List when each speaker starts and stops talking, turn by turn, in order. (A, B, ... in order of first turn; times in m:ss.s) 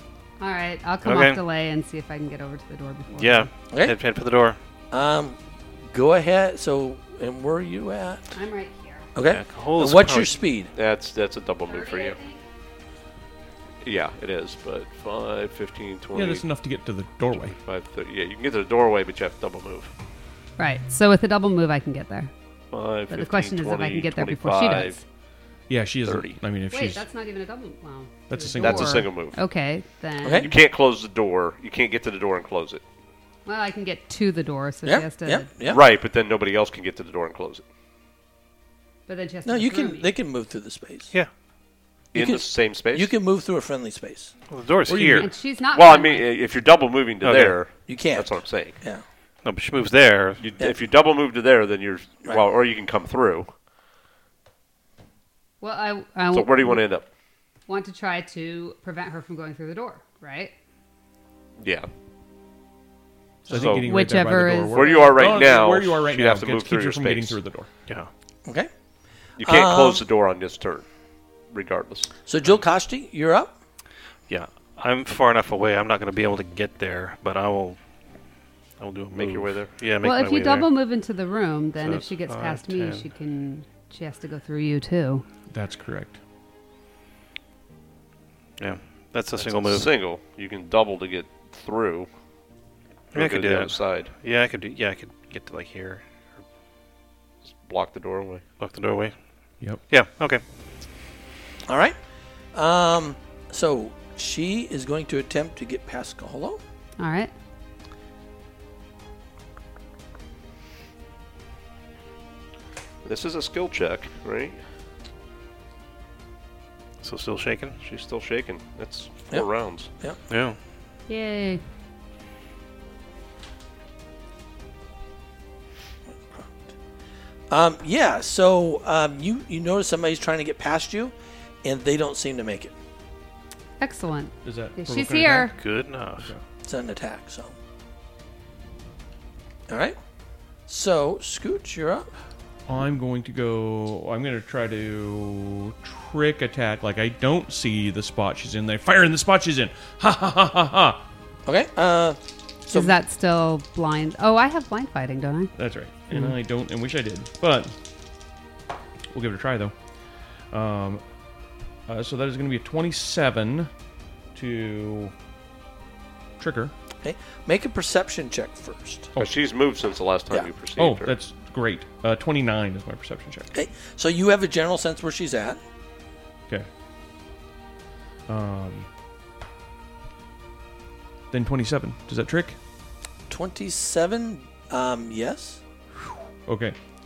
0:00.4-0:03.5 A
0:01.0-0:01.4 B
0:03.1-0:04.6 B
0:03.7-0:04.0 C
0:04.9-0:05.4 C
0:05.9-0:08.3 C
0:08.3-0:09.1 A
0:09.1-0:10.7 C
0:09.2-0:10.4 B
0:10.7-0:12.2 D
0:11.7-0:12.4 A
0:13.8-0:16.4 D
0:16.1-0:17.5 E
0:17.3-0:19.9 D
0:20.6-0:22.3 A
0:22.7-0:25.0 D
0:23.1-0:25.0 A
0:25.7-0:27.0 E
0:26.0-0:26.4 D
0:26.7-0:30.5 A
0:28.3-0:29.1 E
0:28.6-0:29.4 D
0:30.2-0:30.5 C
0:30.4-0:32.8 D
0:33.4-0:35.5 A
0:34.8-0:35.8 C
0:35.7-0:37.6 D
0:39.1-0:40.1 A
0:39.4-0:41.1 C
0:42.1-0:43.1 D
0:42.1-0:44.3 C
0:44.5-0:45.3 B
0:44.9-0:45.3 E
0:45.2-0:46.3 A
0:45.7-0:48.8 D
0:47.2-0:47.7 B
0:47.8-0:49.0 C
0:49.4-0:50.6 B
0:50.4-0:53.5 D
0:55.6-0:56.8 A
0:56.3-0:57.1 D
0:57.7-1:00.5 A
1:01.6-1:01.9 D
1:03.4-1:05.2 A
1:03.5-1:07.7 E
1:03.5-1:03.9 D
1:04.7-1:07.4 D
1:09.4-1:10.8 D
1:09.4-1:10.0 C
1:11.5-1:12.1 D
1:12.2-1:13.5 C
1:14.3-1:17.8 B
1:18.8-1:20.7 B
1:19.1-1:19.8 D
1:20.0-1:25.2 A
1:21.8-1:23.0 B
1:25.5-1:26.2 E
1:28.6-1:29.9 B
1:29.4-1:32.1 D
1:33.1-1:34.1 D
1:33.1-1:36.1 B
1:37.6-1:38.4 D
1:38.6-1:39.1 B
1:39.9-1:40.4 B
1:41.7-1:42.0 C
1:42.5-1:46.6 C
1:47.0-1:47.3 A
1:53.0-1:54.6 D
1:57.0-1:57.8 B
1:57.8-1:59.9 D
2:00.3-2:00.6 B
2:01.1-2:01.6 A
2:06.2-2:06.7 C
2:07.5-2:12.7 C
2:13.8-2:15.5 A
2:14.4-2:15.5 E
2:15.5-2:16.3 B
2:16.6-2:17.5 C
2:19.7-2:20.0 C
2:20.7-2:22.1 C
2:22.7-2:31.0 E
2:31.4-2:33.0 C
2:32.7-2:35.5 A
2:35.6-2:37.7 E
2:39.1-2:39.7 E
2:40.5-2:41.0 E
2:41.9-2:43.7 E
2:44.3-2:45.1 E
2:46.4-2:46.7 E
2:47.0-2:49.1 C
2:49.2-2:51.1 D
2:50.8-2:53.5 E
2:53.5-2:55.6 C
2:58.3-2:58.9 E
3:01.3-3:02.6 E
3:03.3-3:05.6 C
3:06.0-3:06.8 E